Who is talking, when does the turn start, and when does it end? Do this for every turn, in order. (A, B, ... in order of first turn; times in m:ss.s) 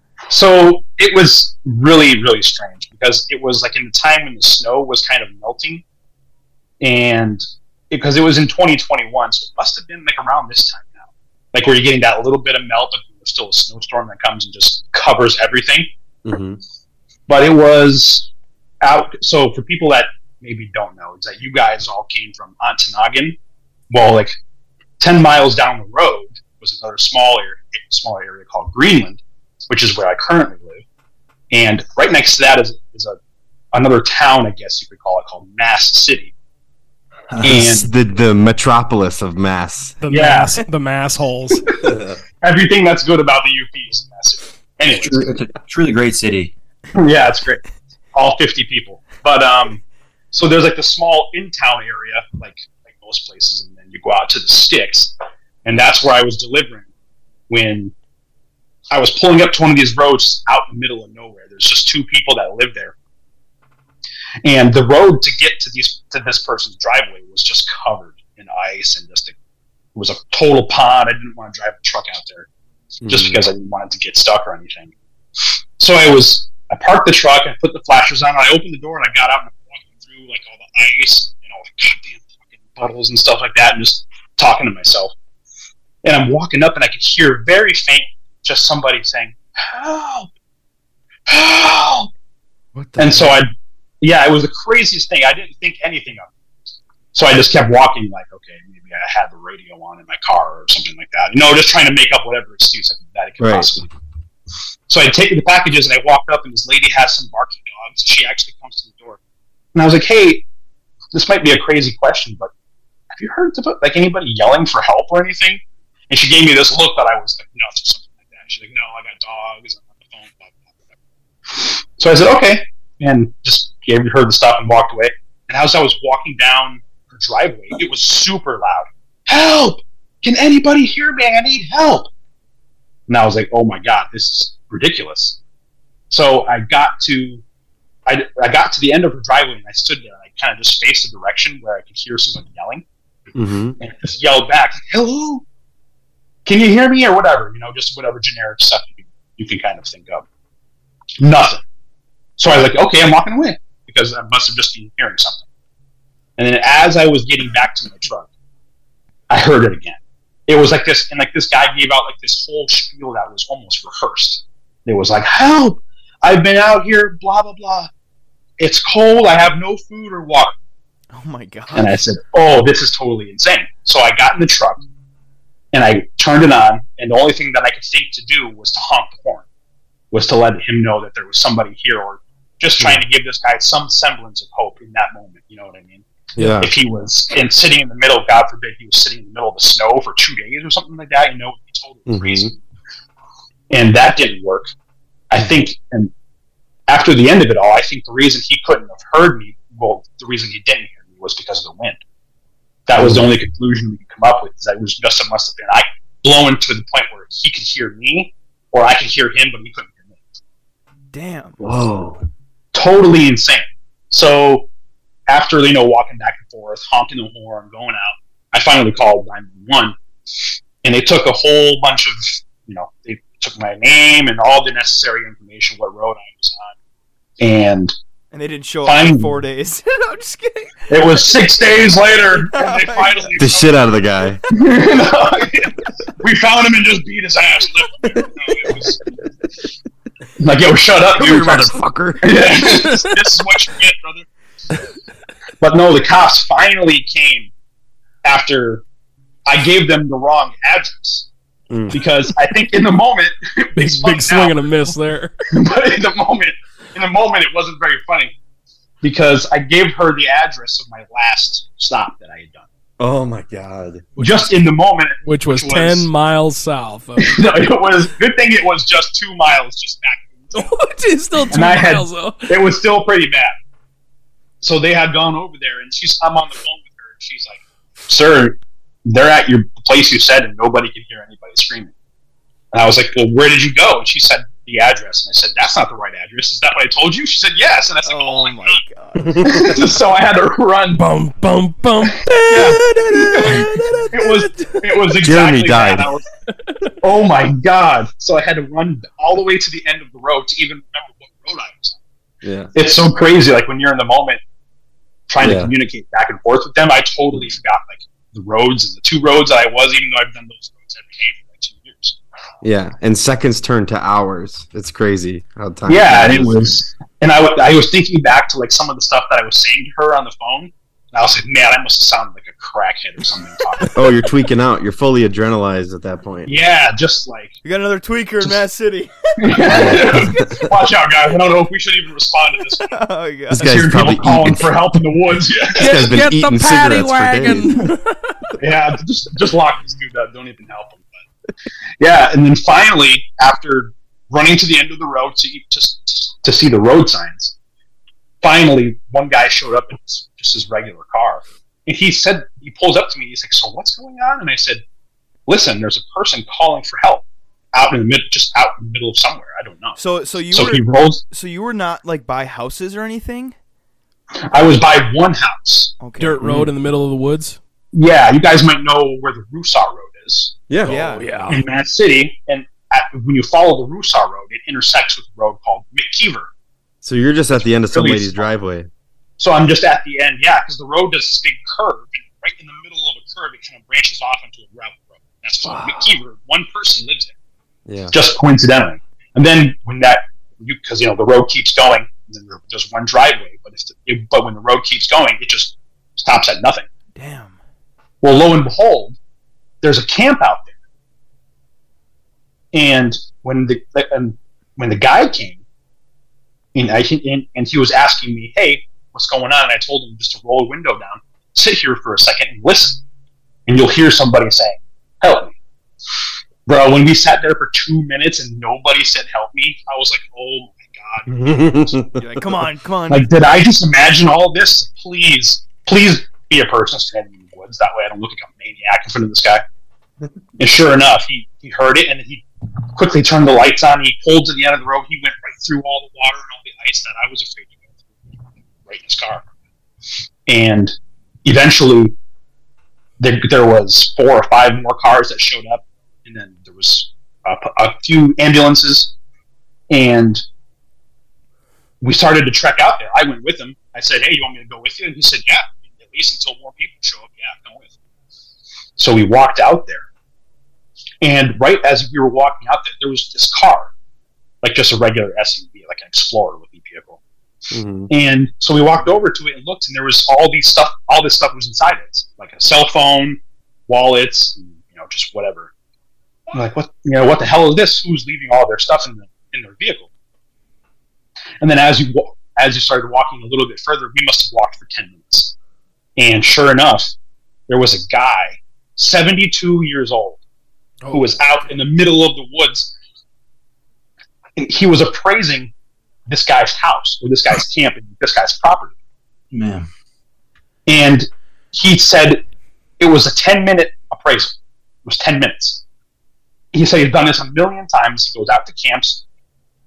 0:00.3-0:05.8 A
0:06.8-0:11.0 A
0:11.5-0:15.9 A
0:16.2-0:16.6 B
0:17.3-0:18.3 A
0:18.8-0:23.4 A
0:23.9-0:24.3 A
0:25.0-0:30.8 A
0:31.5-0:33.2 A
0:33.7-0:36.3 A
0:37.4-0:40.0 B
0:37.4-0:37.9 A
0:40.0-0:41.6 C
0:40.1-0:40.6 A
0:41.8-0:42.2 B
0:42.4-0:45.2 A
0:44.9-0:46.5 D
0:46.9-0:55.1 A
0:55.6-0:56.9 A
0:57.5-0:57.9 A
0:58.9-1:02.9 A
1:04.4-1:09.3 A
1:09.9-1:12.5 A
1:13.0-1:13.4 B
1:13.0-1:25.1 A
1:26.0-1:30.3 A
1:31.3-1:32.1 A
1:32.7-1:33.4 B
1:33.0-1:33.5 A
1:34.0-1:36.3 A
1:37.1-1:43.9 A
1:43.4-1:43.7 B
1:44.9-1:49.2 A
1:49.7-1:50.4 A
1:51.1-1:52.5 A
1:53.1-2:00.6 A
2:01.5-2:12.1 A
2:13.1-2:15.4 A
2:16.1-2:17.4 A
2:18.1-2:22.8 A
2:23.3-2:23.8 B
2:23.8-2:25.4 A
2:26.4-2:30.2 A
2:31.2-2:31.6 A
2:32.4-2:35.4 A
2:36.4-2:38.3 A
2:39.3-2:47.9 A
2:48.6-2:50.5 A
2:51.1-2:52.0 E
2:51.7-2:54.8 A
2:55.7-2:59.4 A
3:00.1-3:12.6 A
3:02.8-3:03.0 B
3:06.4-3:06.7 B
3:12.1-3:12.5 B
3:13.7-3:14.7 A
3:15.3-3:16.1 A
3:16.9-3:22.0 A
3:22.9-3:30.2 A
3:23.0-3:23.3 B
3:31.1-3:31.8 E
3:31.6-3:32.2 B
3:32.7-3:34.7 A
3:35.3-3:40.0 A
3:40.8-3:46.7 A
3:47.4-3:47.9 A
3:48.3-3:51.5 E
3:48.8-3:49.3 A
3:50.9-3:53.8 A
3:52.2-3:53.4 E
3:53.4-3:54.4 B
3:54.5-3:59.1 A
4:00.4-4:04.3 A
4:01.1-4:02.6 B
4:02.7-4:03.1 C
4:05.6-4:07.5 A
4:08.2-4:08.8 A
4:09.4-4:11.3 A
4:11.7-4:12.0 B
4:11.9-4:14.9 A
4:13.8-4:15.3 C
4:15.5-4:18.3 A
4:19.0-4:22.7 A
4:23.0-4:24.1 B
4:24.2-4:24.7 C
4:24.2-4:26.1 A
4:25.2-4:27.5 C
4:27.2-4:30.8 A
4:30.5-4:32.6 C
4:31.4-4:33.5 A
4:34.6-4:41.9 A
4:42.7-4:48.8 A
4:48.0-4:49.4 E
4:49.2-4:49.9 B
4:49.4-4:51.0 A
4:50.9-4:53.8 C
4:52.5-4:55.1 E
4:53.4-4:56.2 A
4:55.2-4:56.1 B
4:56.5-4:56.9 C
4:57.0-5:02.0 A
5:02.4-5:02.7 B
5:02.7-5:04.4 A
5:05.3-5:12.2 A
5:05.4-5:05.7 B
5:12.6-5:16.7 B
5:15.9-5:24.0 A
5:23.9-5:26.5 B
5:26.4-5:27.5 A
5:27.6-5:30.6 E
5:29.4-5:33.0 A
5:32.9-5:33.7 E
5:33.5-5:36.0 A
5:33.5-5:34.7 B
5:35.8-5:38.4 C
5:35.8-5:37.8 B
5:38.6-5:41.1 A
5:42.0-5:47.5 A
5:48.4-5:54.8 A
5:55.5-6:00.0 A
6:00.0-6:03.6 E
6:00.5-6:01.2 A
6:04.4-6:06.0 A
6:06.0-6:06.4 E
6:06.2-6:07.6 C
6:06.4-6:06.7 B
6:07.9-6:10.6 A
6:10.7-6:11.0 B
6:10.8-6:11.6 C
6:10.8-6:11.6 E
6:11.5-6:16.5 A
6:17.0-6:18.9 B
6:17.5-6:18.4 A
6:19.4-6:27.3 A
6:27.8-6:28.1 B
6:28.1-6:36.9 A
6:37.2-6:37.6 E
6:38.2-6:39.2 A
6:39.8-6:40.7 A
6:42.7-6:45.6 A
6:46.7-6:53.0 A
6:53.6-6:55.6 A
6:56.6-7:02.0 A
7:01.3-7:02.6 B
7:02.2-7:03.3 E
7:03.1-7:09.6 A
7:10.6-7:12.4 A
7:13.0-7:17.8 A
7:18.8-7:19.4 A
7:20.5-7:20.9 A
7:21.4-7:22.2 A
7:23.2-7:29.1 A
7:29.9-7:30.4 A
7:32.0-7:37.9 A
7:39.0-7:40.1 A
7:41.2-7:43.9 A
7:44.6-7:47.2 A
7:47.7-7:48.1 B
7:48.1-7:55.7 A
7:56.5-8:00.1 A
8:01.6-8:05.5 A
8:06.2-8:07.1 A
8:07.7-8:10.4 A
8:11.0-8:11.4 C
8:11.1-8:12.9 A
8:14.6-8:15.7 A
8:16.3-8:18.9 A
8:19.5-8:19.9 D
8:20.8-8:22.4 A
8:23.0-8:25.8 A
8:26.7-8:29.2 A